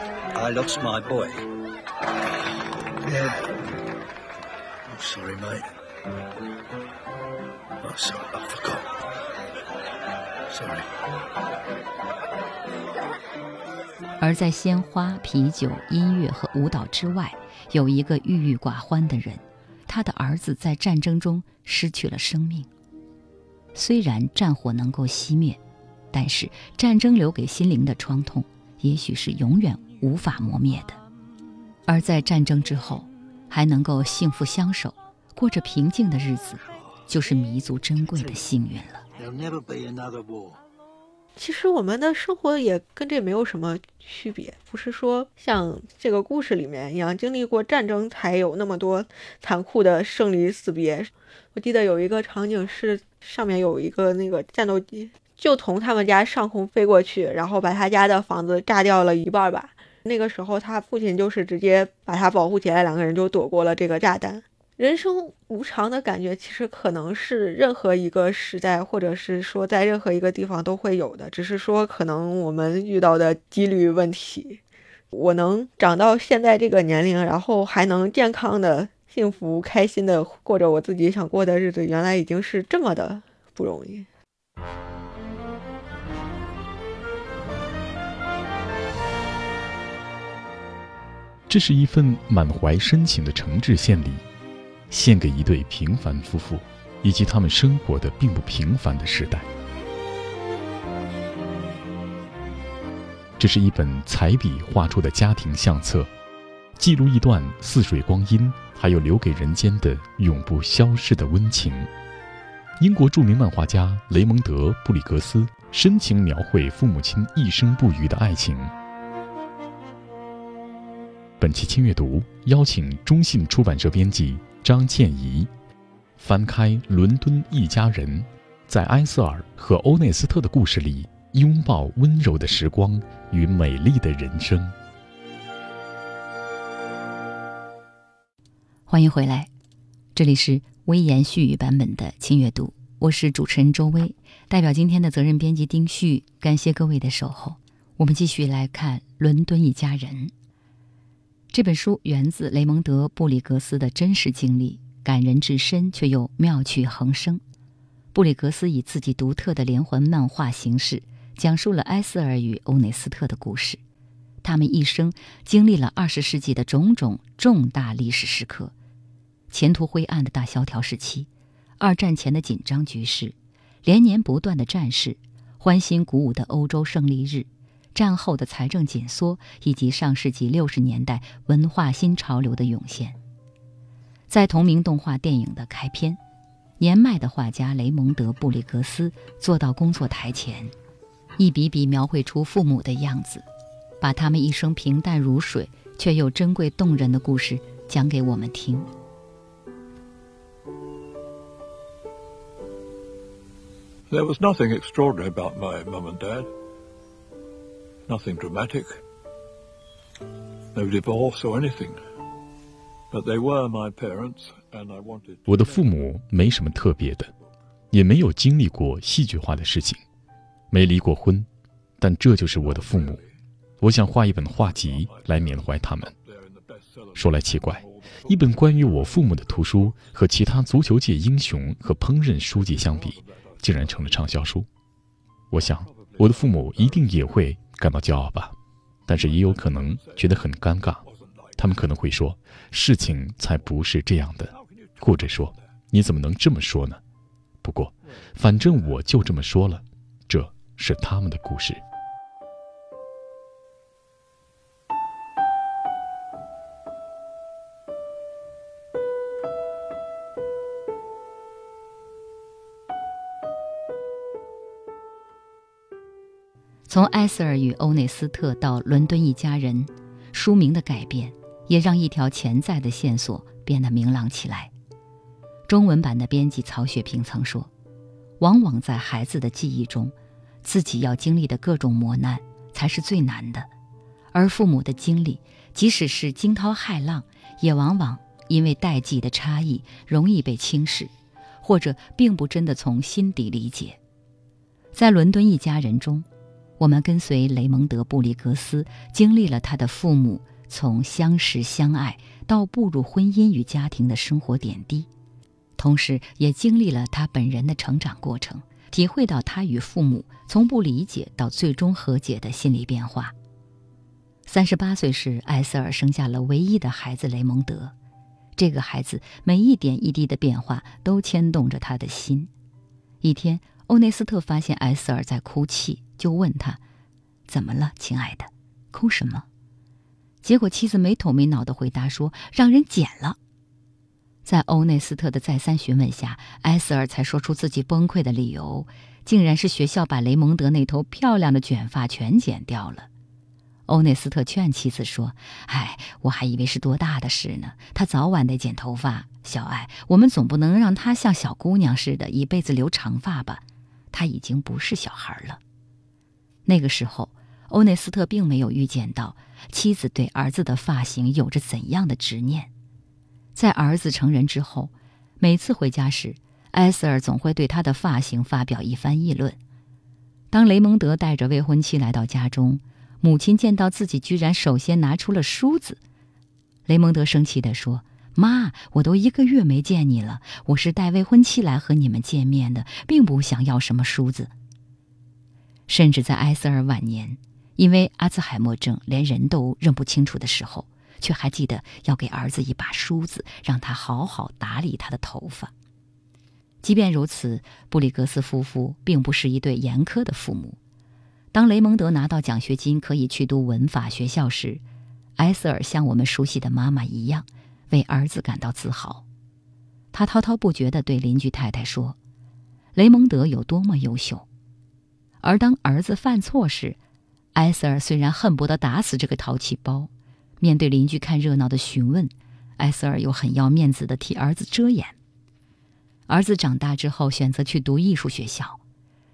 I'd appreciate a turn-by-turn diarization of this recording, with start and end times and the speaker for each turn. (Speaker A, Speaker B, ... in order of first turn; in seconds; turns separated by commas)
Speaker A: 0.4-1.4, Speaker A: 3.0-3.4, Speaker A: 4.9-5.7, Speaker A: 7.8-8.8, Speaker A: 10.5-10.8, Speaker B: 14.2-22.7, Speaker B: 23.8-25.6, Speaker B: 26.1-31.0, Speaker B: 31.9-39.0, Speaker A: 39.2-40.6, Speaker C: 41.4-74.6, Speaker C: 75.1-84.1, Speaker D: 91.5-94.2, Speaker D: 94.9-99.5, Speaker D: 103.4-106.1, Speaker D: 106.8-111.9, Speaker D: 112.8-118.7, Speaker D: 121.4-125.5, Speaker D: 126.2-134.8, Speaker B: 138.9-139.5, Speaker B: 140.2-150.3, Speaker B: 151.5-157.4, Speaker B: 158.1-163.8, Speaker B: 164.4-168.7, Speaker B: 169.5-171.3, Speaker B: 171.8-183.2, Speaker B: 184.3-186.2, Speaker B: 186.8-190.7, Speaker B: 191.4-193.4, Speaker B: 194.0-198.9, Speaker E: 204.1-206.5, Speaker E: 208.1-209.0, Speaker E: 210.7-212.0, Speaker E: 213.1-215.8, Speaker D: 215.5-217.3, Speaker D: 217.9-220.0, Speaker D: 220.7-221.5, Speaker D: 222.0-223.2, Speaker E: 222.7-223.2, Speaker D: 223.8-226.1, Speaker E: 226.4-227.9, Speaker D: 227.1-234.7, Speaker E: 232.8-233.2, Speaker D: 235.5-238.6, Speaker E: 235.9-236.6, Speaker D: 239.1-241.0, Speaker E: 239.1-240.4, Speaker E: 241.2-241.8, Speaker D: 241.6-247.0, Speaker E: 245.0-245.5, Speaker D: 247.6-251.8, Speaker B: 266.9-274.7, Speaker B: 275.7-277.7, Speaker B: 278.4-283.7, Speaker B: 284.3-294.0, Speaker B: 294.9-296.2, Speaker B: 296.8-305.1, Speaker B: 305.8-313.3, Speaker B: 314.5-317.9, Speaker B: 318.6-322.5, Speaker B: 323.2-326.8, Speaker B: 327.5-329.5, Speaker B: 330.4-333.4, Speaker B: 334.4-343.1, Speaker B: 343.9-355.6, Speaker B: 356.7-362.7, Speaker B: 363.6-369.6, Speaker B: 370.5-376.0, Speaker B: 376.9-384.5, Speaker B: 385.9-395.7, Speaker B: 396.8-400.8, Speaker B: 401.5-404.8, Speaker B: 405.4-409.2, Speaker B: 410.1-412.2, Speaker B: 412.9-414.5, Speaker B: 415.4-417.0, Speaker B: 417.6-420.1, Speaker B: 420.6-425.1, Speaker B: 426.3-428.8